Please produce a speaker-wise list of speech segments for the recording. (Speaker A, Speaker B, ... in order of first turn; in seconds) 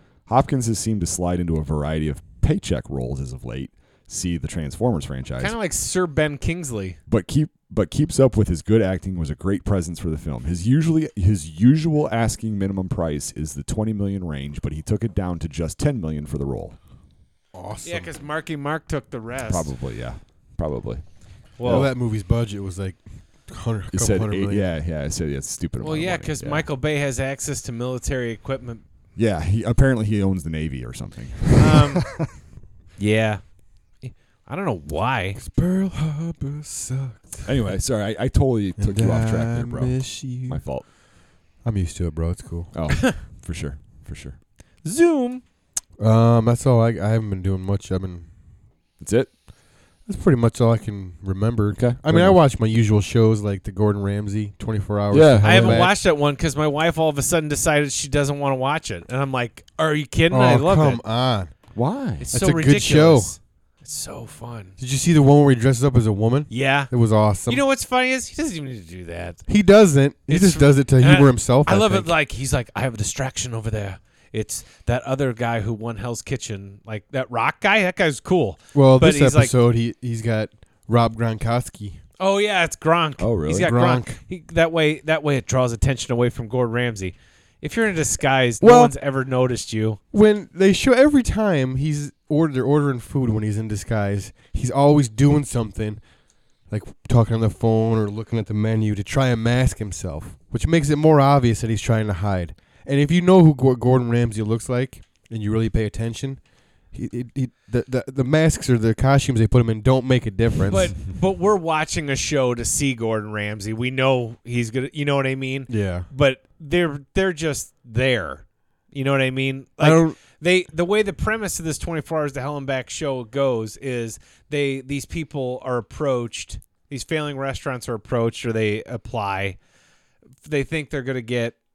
Speaker A: 0.2-5.5, 7.1-16.8, 19.5-21.0, 21.6-21.9, 23.9-26.7, 29.1-32.3, 37.4-40.9, 42.7-44.4, 49.0-49.3, 51.7-52.4, 55.1-55.9, 61.7-62.3, 83.2-83.7
Speaker B: 5.4-7.0, 17.8-19.7, 21.6-21.9, 25.8-28.8, 31.5-32.2, 33.0-35.4, 44.8-45.4, 55.4-61.0, 62.2-64.7, 66.5-66.9, 67.5-69.4, 70.3-79.5, 82.2-90.0, 110.7-129.6, 130.4-131.6
Speaker C: 17.5-18.1, 21.6-24.7, 35.4-37.5, 38.8-40.6, 41.6-42.7, 46.0-48.3, 50.0-55.9, 60.3-61.5, 62.3-63.3, 64.8-67.6, 69.5-72.1, 78.7-82.0, 83.6-84.2, 88.6-88.9, 90.1-96.0, 96.7-111.0, 115.7-116.1, 119.8-120.2